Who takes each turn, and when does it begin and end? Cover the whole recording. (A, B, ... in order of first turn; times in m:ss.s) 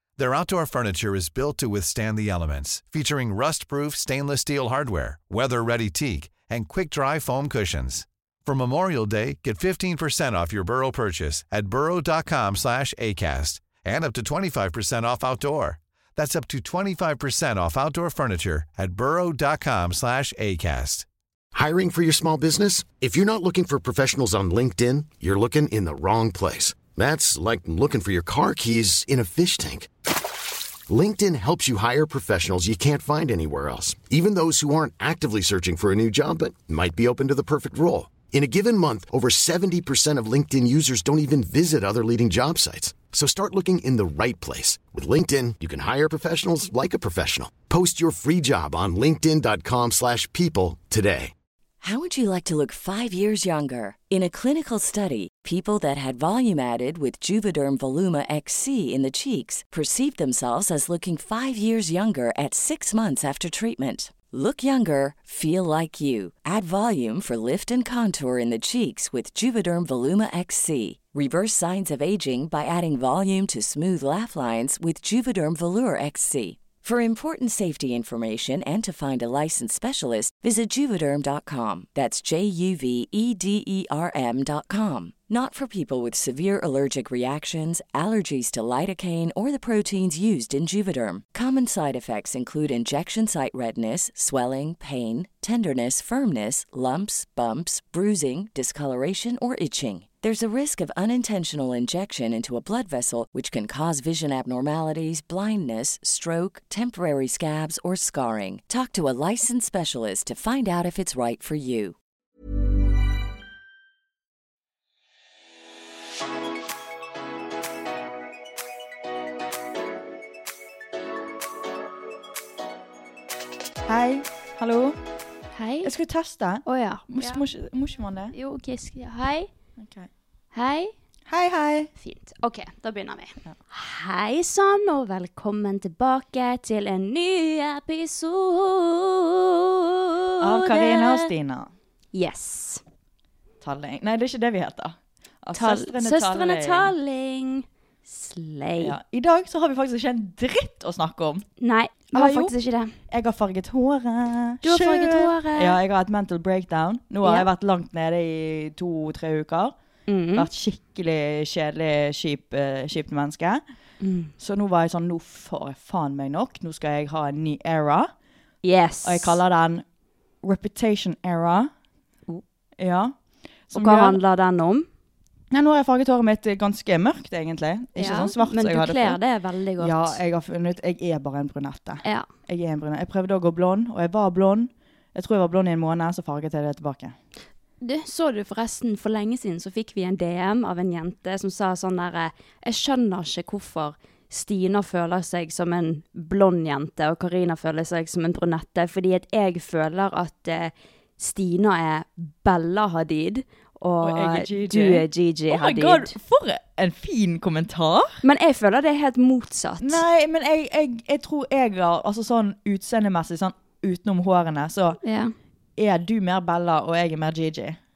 0:00.2-0:21.0 A
0:21.5-0:29.9 B
0:30.9-0:51.3 B
0:51.8-1:51.9 C
2:03.8-2:05.0 D
2:05.5-2:05.9 E
2:05.8-2:08.3 D
2:06.6-2:07.4 E
2:08.3-2:09.5 E
2:09.8-2:10.1 D
2:10.5-2:10.9 E
2:11.3-2:11.9 D
2:12.0-2:19.5 E
2:20.1-2:21.3 E
2:20.4-2:21.7 D
2:22.1-2:22.8 E
2:23.6-2:26.9 D
2:25.6-2:29.0 E
2:28.8-2:31.5 D
2:31.6-2:32.9 E
2:32.1-2:32.5 D
2:33.1-2:39.8 D
2:34.6-2:35.8 E
2:37.2-2:37.5 E
2:40.1-2:40.5 E
2:40.3-2:43.6 D
2:44.0-2:44.3 E
2:44.4-2:48.1 D
2:48.6-2:49.4 E
2:49.0-2:49.8 D
2:50.4-2:51.7 D
2:52.8-2:53.2 D
2:53.7-2:54.2 D
2:53.7-2:54.9 E
2:55.5-2:59.2 D
2:58.0-3:00.2 E
2:59.8-3:07.2 D
3:07.8-3:26.2 E
3:24.0-3:28.2 D
3:28.2-3:30.0 E
3:29.8-3:35.0 D
3:35.0-3:35.3 E
3:35.8-3:37.8 D